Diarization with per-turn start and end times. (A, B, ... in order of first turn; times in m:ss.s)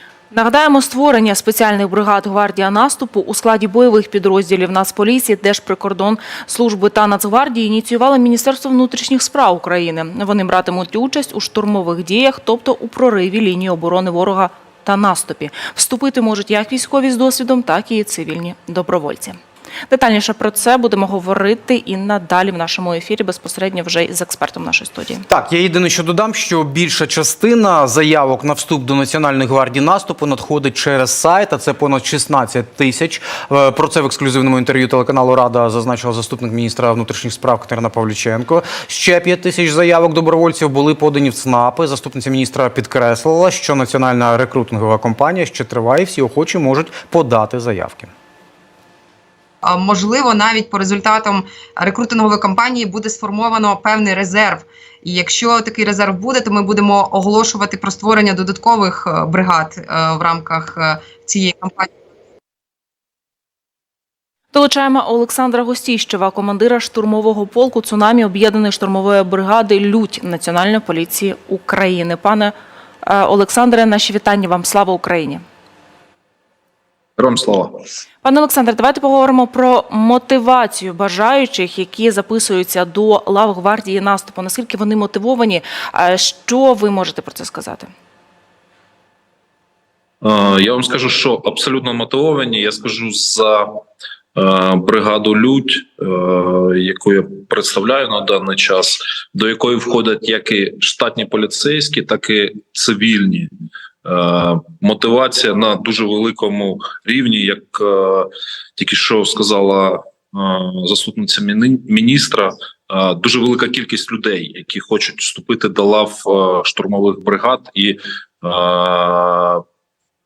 0:00.3-0:19.4 A
0:19.9-0:25.3 A
0:25.3-0:48.1 B
0:49.6-1:01.9 C
1:04.5-1:15.4 A
1:17.2-1:17.8 D
1:18.2-1:27.9 A
1:30.2-1:33.7 D
1:34.4-1:43.5 D
1:44.0-1:59.6 D